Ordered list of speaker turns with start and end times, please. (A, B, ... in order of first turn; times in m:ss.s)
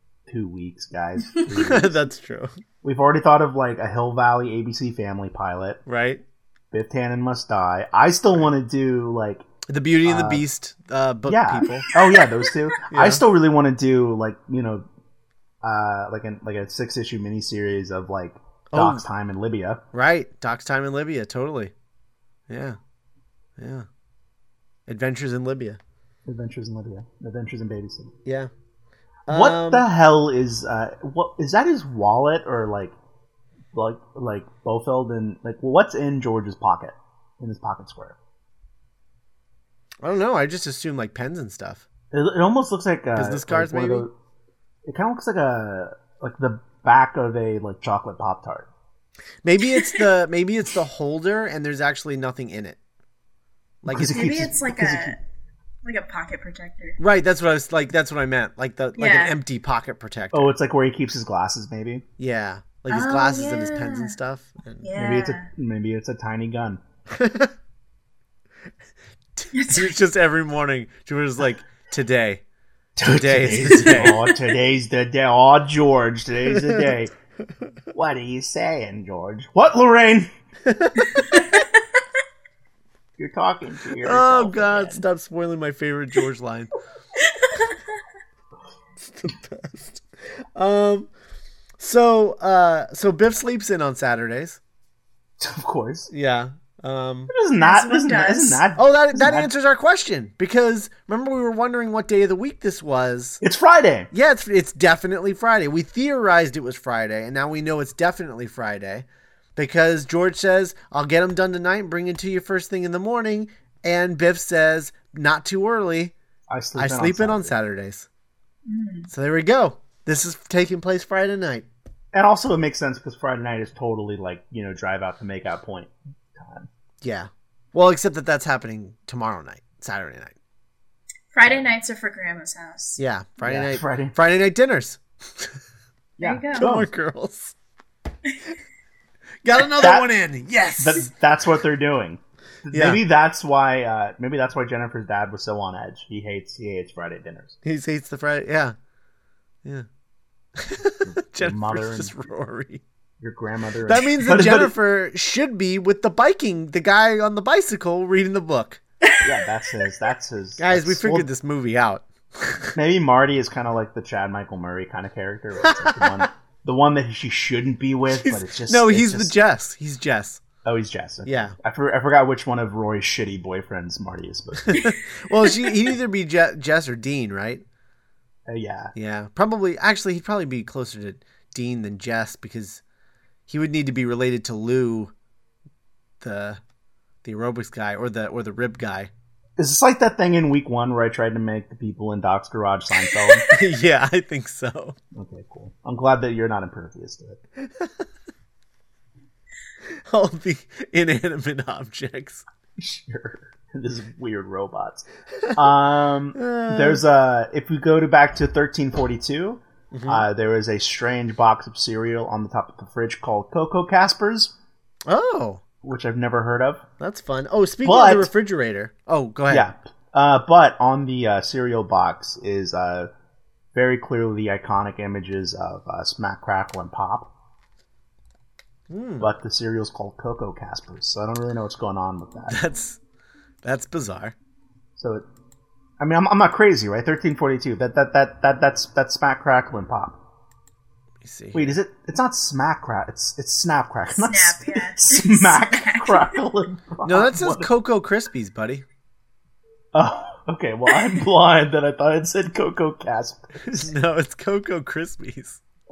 0:00.3-0:02.0 A
0:01.5-0:02.6 B
0:02.8-0:05.8 A
0:05.9-0:06.2 B
0:06.7-0:09.4 A
0:09.7-0:11.9 B
0:10.0-0:10.4 A
0:11.3-0:14.9 A
0:11.9-0:12.6 C
0:12.9-0:13.2 B
0:15.6-0:19.8 A
0:18.7-0:19.0 B
0:19.9-0:21.7 B
0:22.5-0:22.8 B
0:23.6-0:23.9 B
0:24.9-0:25.8 B
0:26.3-0:28.1 A
0:28.2-0:28.5 B
0:29.3-0:29.9 B
0:29.3-0:33.0 A
0:33.7-0:38.2 A
0:40.0-0:41.8 B
0:42.1-0:44.1 A
0:43.2-0:44.1 B
0:44.9-0:48.7 A
0:49.4-0:52.8 B
0:49.8-0:50.0 C
0:53.8-0:54.3 B
0:53.9-0:55.2 A
0:54.0-0:55.2 C
0:55.8-0:57.0 C
0:57.0-1:00.5 B
0:59.0-0:59.4 C
1:00.3-1:02.0 A
1:02.2-1:04.9 B
1:02.9-1:04.2 C
1:04.8-1:05.5 C
1:05.0-1:06.8 A
1:07.1-1:07.5 B
1:09.4-1:12.4 B
1:09.5-1:09.9 C
1:13.0-1:17.1 A
1:13.0-1:14.2 B
1:13.9-1:14.4 C
1:16.5-1:16.9 B
1:17.9-1:20.3 A
1:20.6-1:21.6 B
1:21.2-1:21.8 C
1:23.2-1:25.0 A
1:24.0-1:26.7 B
1:27.2-1:27.8 C
1:29.0-1:30.0 B
1:30.6-1:31.1 B
1:31.8-1:34.6 B
1:35.4-1:36.1 A
1:36.1-1:37.3 B
1:37.3-1:39.5 A
1:37.6-1:38.6 C
1:38.8-1:43.4 B
1:43.4-1:44.1 A
1:44.1-1:49.0 B
1:49.6-1:56.2 B
1:56.5-1:57.6 A
1:56.8-1:58.1 B
1:58.7-1:59.1 C
1:59.1-2:01.7 B
2:02.1-2:06.7 A
2:07.0-2:10.4 B
2:11.3-2:13.0 C
2:13.0-2:15.6 B
2:13.4-2:14.2 A
2:16.2-2:16.9 A
2:16.2-2:16.7 C
2:16.6-2:17.6 B
2:19.4-2:21.1 B
2:19.8-2:20.1 A
2:20.8-2:27.6 A
2:22.7-2:23.0 B
2:27.6-2:28.8 B
2:30.6-2:32.8 B
2:31.2-2:32.1 A
2:33.2-2:34.7 A
2:33.9-2:38.8 B
2:39.0-2:39.3 C
2:39.2-2:41.3 A
2:40.6-2:42.8 B
2:42.8-2:49.4 A
2:45.6-2:46.3 B
2:48.2-2:50.4 B
2:50.6-2:54.8 A
2:51.2-2:51.6 B
2:54.6-2:57.6 B
2:58.5-2:58.9 A
2:59.0-3:02.8 B
3:03.5-3:05.1 B
3:06.2-3:06.6 B
3:07.2-3:09.1 B
3:09.6-3:13.5 A
3:13.0-3:13.5 C
3:13.5-3:15.0 B
3:15.2-3:17.4 A
3:17.6-3:18.1 B
3:20.0-3:22.4 B
3:22.8-3:34.5 A
3:26.4-3:27.0 B
3:29.9-3:30.3 B
3:35.1-3:35.6 B
3:35.8-3:36.8 A
3:37.0-3:39.7 B
3:37.8-3:38.3 A
3:39.5-3:43.1 A
3:43.7-3:47.3 A
3:48.9-3:49.3 B
3:49.2-3:52.6 A
3:52.5-3:53.0 B
3:53.6-3:54.4 B
3:55.0-3:55.3 A
3:56.0-4:00.2 A
4:01.2-4:01.8 B
4:01.5-4:07.7 A
4:04.1-4:06.4 C
4:07.0-4:08.8 B
4:09.9-4:13.9 A
4:13.7-4:15.6 B